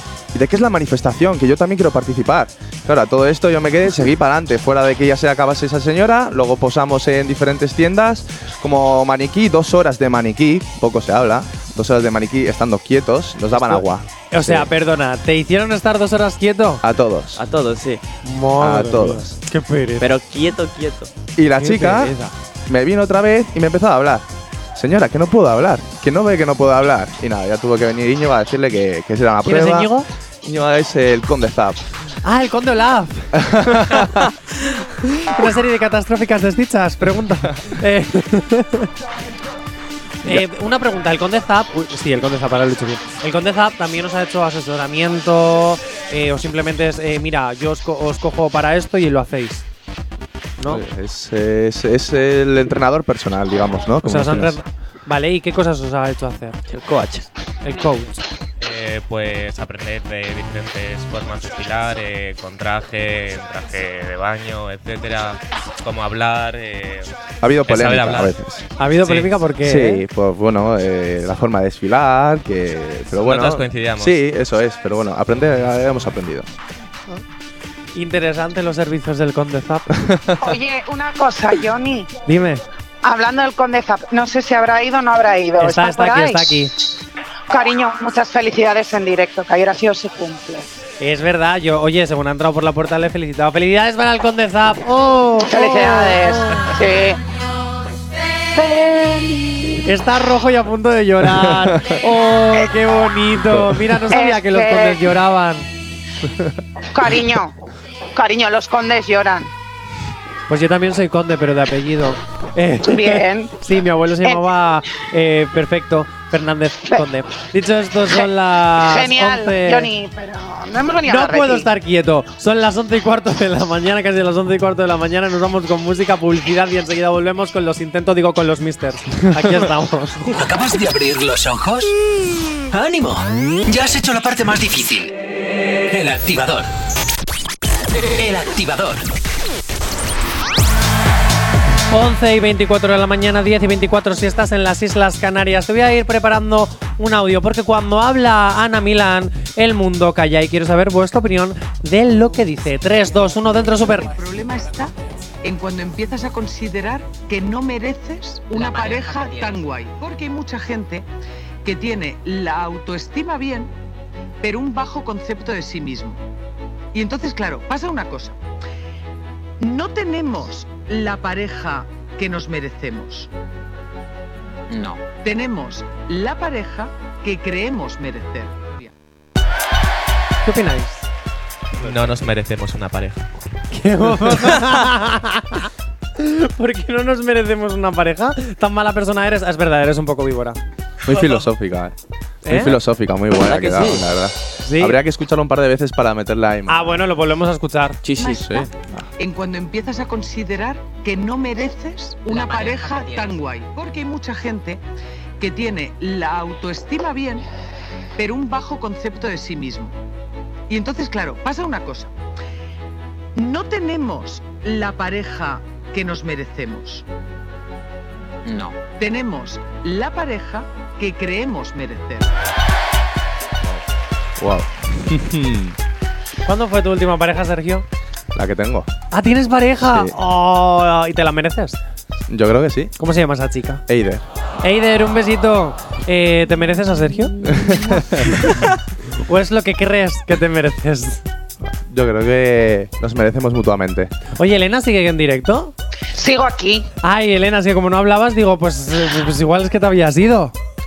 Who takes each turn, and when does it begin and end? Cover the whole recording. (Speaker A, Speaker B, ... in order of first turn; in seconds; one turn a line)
Speaker A: 0.3-14.7
Speaker B: 13.6-16.8
Speaker A: 16.8-17.4
Speaker C: 17.4-18.0
Speaker B: 18.2-20.1
Speaker A: 18.6-19.4
Speaker C: 20.0-21.1
Speaker A: 21.4-22.1
Speaker B: 21.6-22.3
Speaker A: 22.7-29.9
Speaker B: 29.4-30.1
Speaker A: 30.4-31.8
Speaker B: 32.2-34.2
Speaker A: 33.4-34.2
Speaker B: 35.1-38.9
Speaker B: 40.2-49.6
Speaker A: 50.7-54.6
Speaker B: 54.0-56.6
Speaker C: 56.7-57.3
Speaker B: 57.6-58.2
Speaker D: 58.6-67.1
Speaker A: 67.4-68.7
Speaker D: 67.7-68.3
Speaker B: 68.8-70.0
Speaker D: 69.0-69.3
Speaker A: 69.6-76.5
Speaker D: 73.2-74.1
Speaker B: 78.0-79.9
Speaker A: 80.0-80.5
Speaker E: 80.4-82.1
Speaker B: 82.3-82.6
Speaker E: 83.0-86.7
Speaker B: 85.6-86.7
Speaker E: 87.5-90.8
Speaker B: 91.0-96.8
Speaker E: 95.4-97.2
Speaker E: 98.5-99.8
Speaker B: 99.8-105.7
Speaker A: 101.3-102.0
Speaker A: 103.5-104.0
Speaker E: 104.1-105.0
Speaker E: 106.9-107.5
Speaker E: 108.2-109.5
Speaker B: 110.5-119.9
Speaker E: 112.8-113.5
Speaker E: 118.1-121.7
Speaker B: 121.1-130.3
Speaker F: 130.3-131.9
Speaker F: 132.7-135.2
Speaker F: 135.9-136.7
Speaker F: 138.0-139.0
Speaker B: 141.9-154.1
Speaker G: 154.1-161.1
Speaker G: 161.6-163.7
Speaker G: 164.4-166.2
Speaker G: 166.9-168.4
Speaker G: 169.6-173.3
Speaker G: 174.7-178.9
Speaker B: 180.4-181.1
Speaker D: 181.8-183.3
Speaker B: 183.7-190.6
Speaker A: 191.0-191.9
Speaker B: 192.4-192.8
Speaker A: 192.5-197.0
Speaker C: 193.4-194.1
Speaker B: 194.6-195.0
Speaker B: 196.7-198.0
Speaker C: 198.0-198.6
Speaker A: 198.2-199.1
Speaker G: 199.2-204.8
Speaker G: 205.4-207.4
Speaker G: 208.2-210.0
Speaker G: 210.7-212.1
Speaker G: 213.4-217.1
Speaker G: 218.5-222.3
Speaker A: 224.4-225.8
Speaker B: 226.5-227.8
Speaker A: 228.3-228.9
Speaker B: 229.1-231.8
Speaker A: 229.8-230.2
Speaker A: 232.3-232.9
Speaker B: 233.0-233.8
Speaker A: 233.9-234.2
Speaker B: 234.6-237.4
Speaker A: 237.4-238.3
Speaker B: 238.3-238.6
Speaker B: 239.3-241.2
Speaker A: 241.6-244.1
Speaker B: 244.4-245.7
Speaker E: 246.1-246.9
Speaker B: 247.0-250.5